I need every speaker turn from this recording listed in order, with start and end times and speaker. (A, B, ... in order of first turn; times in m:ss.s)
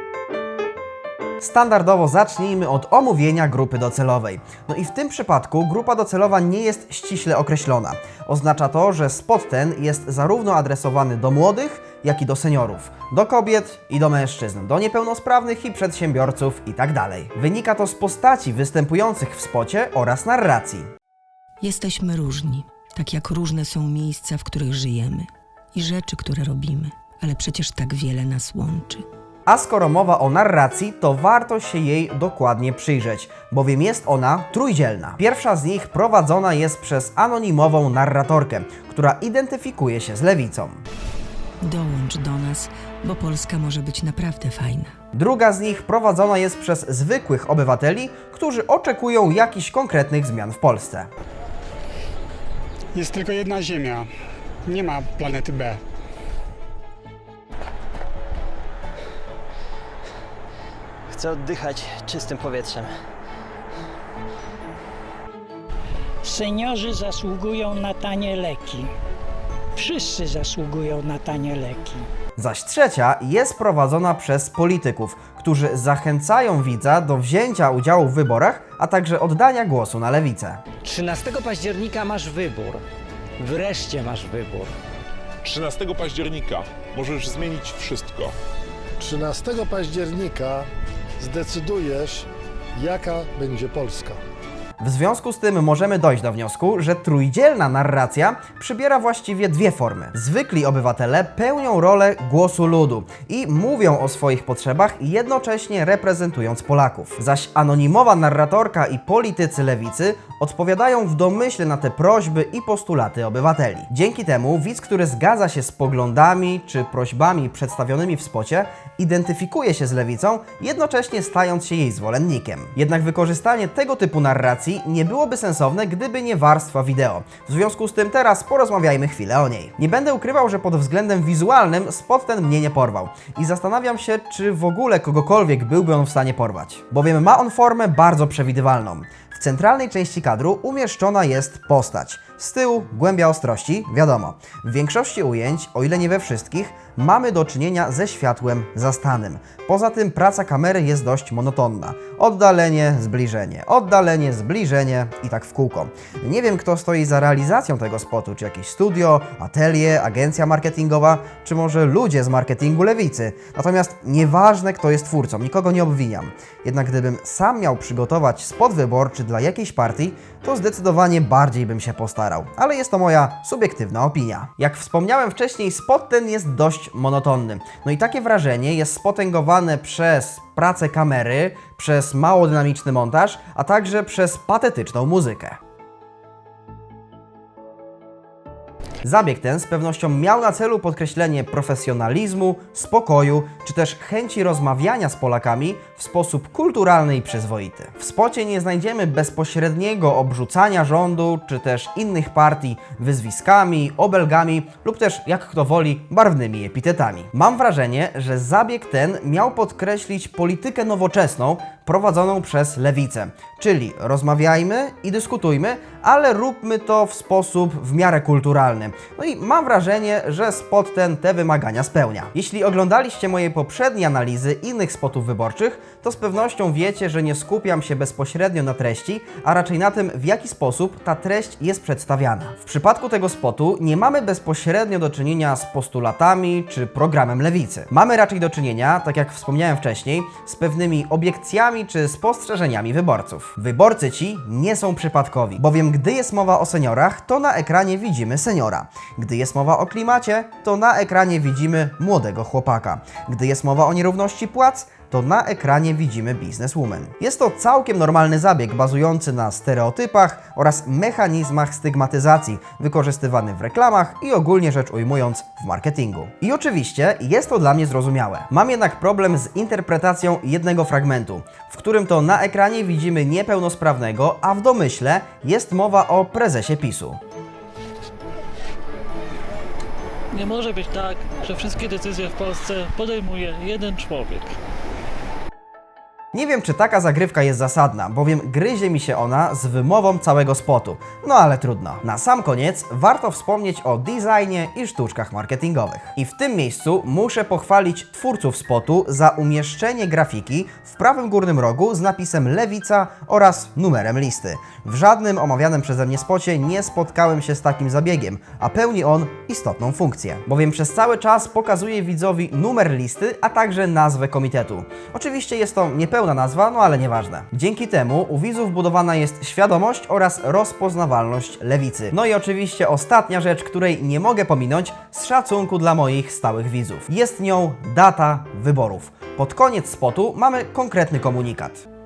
0:01.4-0:20.9 A
0:21.6-0:29.1 B
0:29.5-0:40.8 A
0:41.6-0:45.0 B
0:45.1-0:51.1 A
0:52.9-0:54.1 C
0:54.7-0:55.8 C
1:01.1-1:03.0 D
1:06.2-1:08.9 E
1:09.8-1:12.0 E
1:12.4-1:20.6 A
1:20.8-1:22.8 F
1:21.9-1:22.7 D
1:23.4-1:24.7 F
1:25.4-1:28.3 G
1:29.0-1:30.6 H
1:31.2-1:32.2 H
1:32.8-1:34.2 H
1:34.8-3:05.6 A
3:09.0-4:37.2 A
4:40.3-4:44.5 I
4:46.3-5:31.8 A